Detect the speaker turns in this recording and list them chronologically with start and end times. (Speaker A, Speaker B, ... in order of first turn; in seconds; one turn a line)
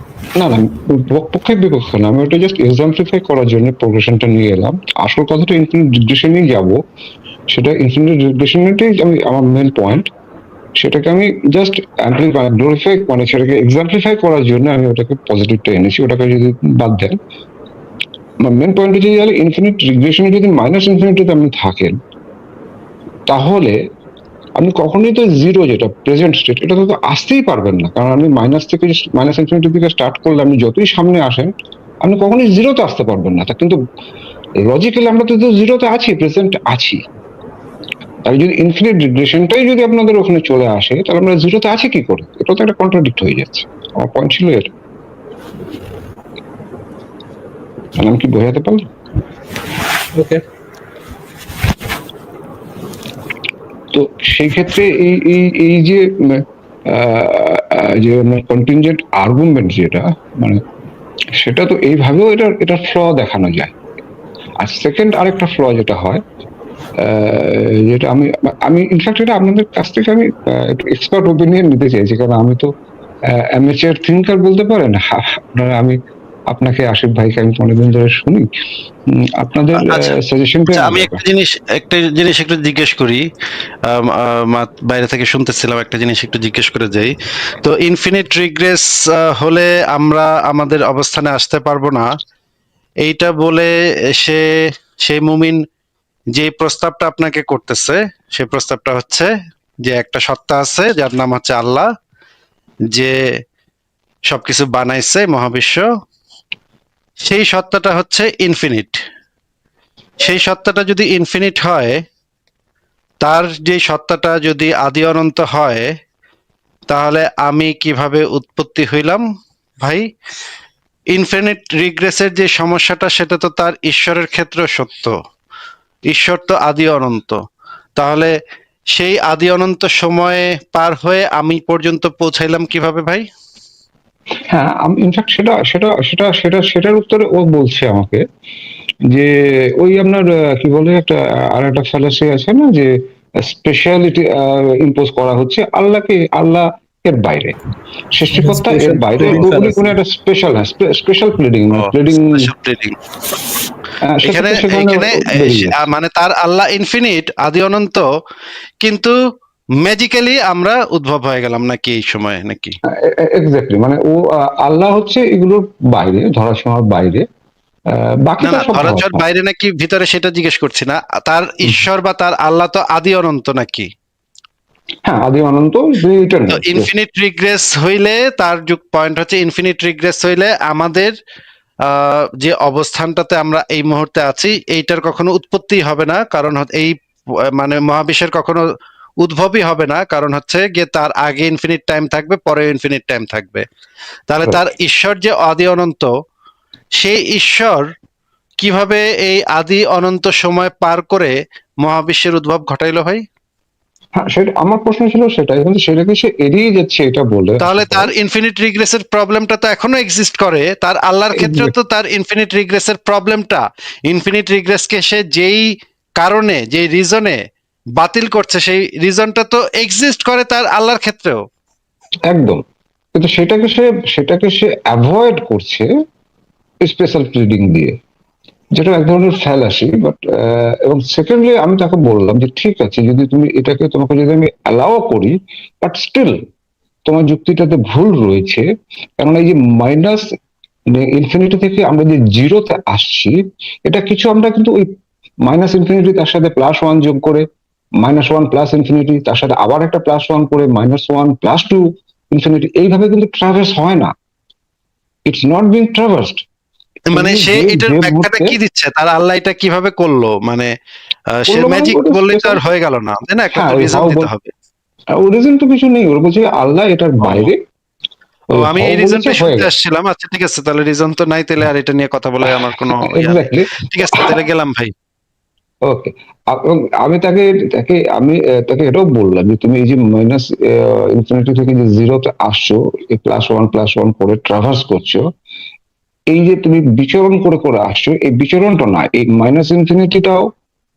Speaker A: 0.3-6.8
Speaker A: 7.5-10.1
Speaker A: 10.8-17.2
Speaker A: 18.4-22.0
Speaker A: 23.3-23.8
Speaker A: 24.6-31.5
Speaker A: 32.0-33.8
Speaker A: 34.6-37.0
Speaker A: 38.2-44.7
Speaker A: 48.0-48.9
Speaker B: 50.1-50.4
Speaker A: 53.9-60.6
Speaker A: 61.4-63.8
Speaker A: 64.6-66.2
Speaker A: 67.0-72.7
Speaker A: 73.3-76.0
Speaker A: 76.5-78.5
Speaker A: 79.1-81.2
Speaker C: 79.8-80.2
Speaker C: 80.7-83.2
Speaker C: 83.8-92.1
Speaker C: 93.0-95.6
Speaker C: 96.3-99.3
Speaker C: 99.8-101.9
Speaker C: 104.3-105.9
Speaker C: 107.2-109.0
Speaker C: 110.2-112.0
Speaker C: 113.2-115.9
Speaker C: 116.9-119.2
Speaker C: 119.8-120.1
Speaker C: 121.1-125.2
Speaker C: 126.1-127.4
Speaker C: 128.0-128.3
Speaker C: 128.9-133.2
Speaker A: 134.5-138.2
Speaker A: 139.1-147.5
Speaker A: 148.1-152.5
Speaker B: 148.3-150.0
Speaker C: 151.7-153.0
Speaker A: 154.0-155.9
Speaker C: 154.2-158.1
Speaker C: 158.8-159.2
Speaker C: 159.8-162.8
Speaker A: 162.9-167.2
Speaker A: 167.9-169.2
Speaker C: 168.4-173.9
Speaker A: 175.1-176.9
Speaker C: 176.5-181.1
Speaker C: 181.9-187.0
Speaker C: 187.6-188.7
Speaker C: 189.2-193.7
Speaker C: 194.3-196.1
Speaker C: 197.0-197.9
Speaker C: 198.6-203.2
Speaker A: 204.2-208.1
Speaker C: 207.6-217.4
Speaker A: 211.3-211.7
Speaker C: 218.0-221.4
Speaker A: 222.3-225.9
Speaker A: 226.8-228.0
Speaker A: 228.8-236.4
Speaker A: 237.1-238.7
Speaker A: 239.2-240.3
Speaker A: 240.9-244.9
Speaker A: 245.4-247.5
Speaker A: 248.0-254.1
Speaker A: 255.3-256.4
Speaker C: 257.1-260.7
Speaker A: 257.1-258.6
Speaker C: 261.3-264.5
Speaker A: 261.5-262.6
Speaker A: 263.5-264.3
Speaker A: 265.1-267.6
Speaker C: 267.2-267.5
Speaker A: 268.5-269.7
Speaker C: 268.5-274.9
Speaker A: 272.5-274.4
Speaker A: 275.9-285.2
Speaker A: 286.3-290.5